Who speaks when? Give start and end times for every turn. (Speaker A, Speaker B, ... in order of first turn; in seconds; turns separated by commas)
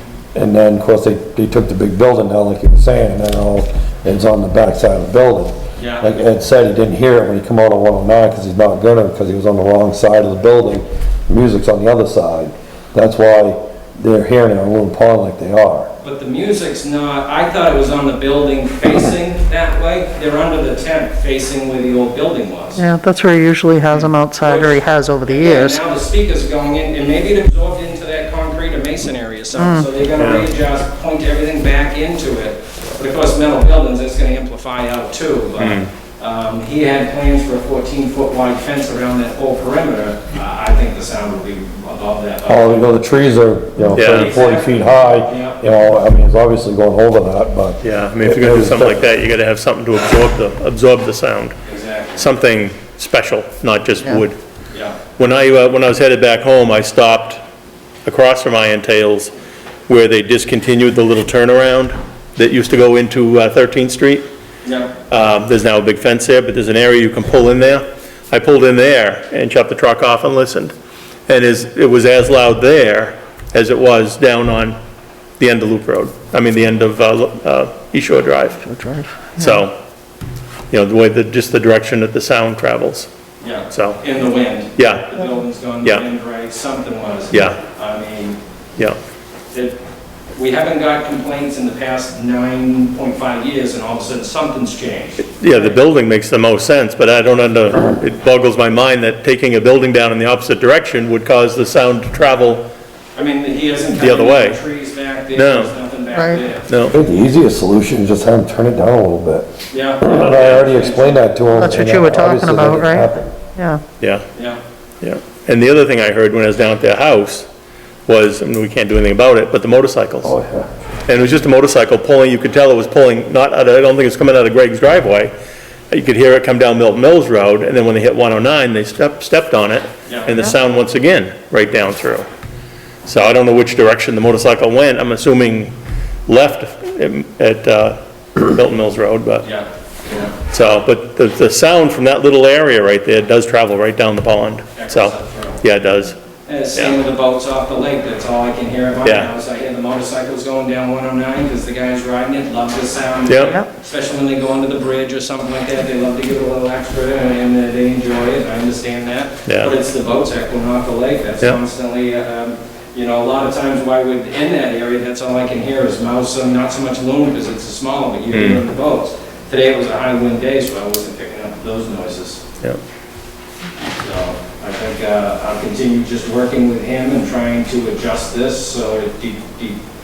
Speaker A: 0.3-15.9, Speaker B: 5.8-6.1, Speaker B: 16.0-22.8, Speaker C: 22.8-25.8, Speaker B: 23.9-43.3, Speaker C: 29.6-29.9, Speaker D: 30.2-30.4, Speaker D: 35.6-35.9, Speaker A: 42.5-49.1, Speaker B: 43.9-45.6, Speaker D: 43.9-44.3, Speaker D: 47.8-51.5, Speaker B: 51.6-52.3, Speaker D: 52.1-54.3, Speaker B: 54.7-55.0, Speaker D: 55.2-57.4, Speaker D: 58.0-59.3, Speaker D: 59.9-64.3, Speaker B: 64.6-64.9, Speaker D: 65.1-70.7, Speaker D: 71.3-74.8, Speaker D: 75.4-78.6, Speaker C: 78.6-79.6, Speaker D: 79.4-79.7, Speaker D: 80.7-83.1, Speaker B: 83.4-88.4, Speaker D: 83.7-84.0, Speaker D: 84.8-85.1, Speaker D: 87.3-87.6, Speaker B: 90.3-95.7, Speaker D: 95.4-102.6, Speaker B: 103.1-106.7, Speaker D: 103.9-104.6, Speaker D: 105.3-105.7, Speaker C: 106.1-106.4, Speaker D: 106.7-107.0, Speaker A: 106.9-109.5, Speaker B: 109.7-111.2, Speaker A: 110.0-113.3, Speaker C: 111.5-113.8, Speaker D: 114.0-114.2, Speaker B: 114.3-114.6, Speaker D: 115.0-117.5, Speaker D: 118.1-120.3, Speaker A: 120.2-120.7, Speaker D: 121.1-125.3, Speaker D: 125.9-132.2, Speaker B: 130.1-130.3, Speaker D: 133.1-135.7, Speaker D: 136.3-139.5, Speaker B: 139.4-140.3, Speaker D: 140.5-146.2, Speaker B: 144.8-145.6, Speaker B: 146.4-172.4, Speaker D: 149.0-149.3, Speaker D: 153.3-153.5, Speaker D: 159.5-159.7, Speaker D: 168.3-168.6, Speaker B: 173.8-179.8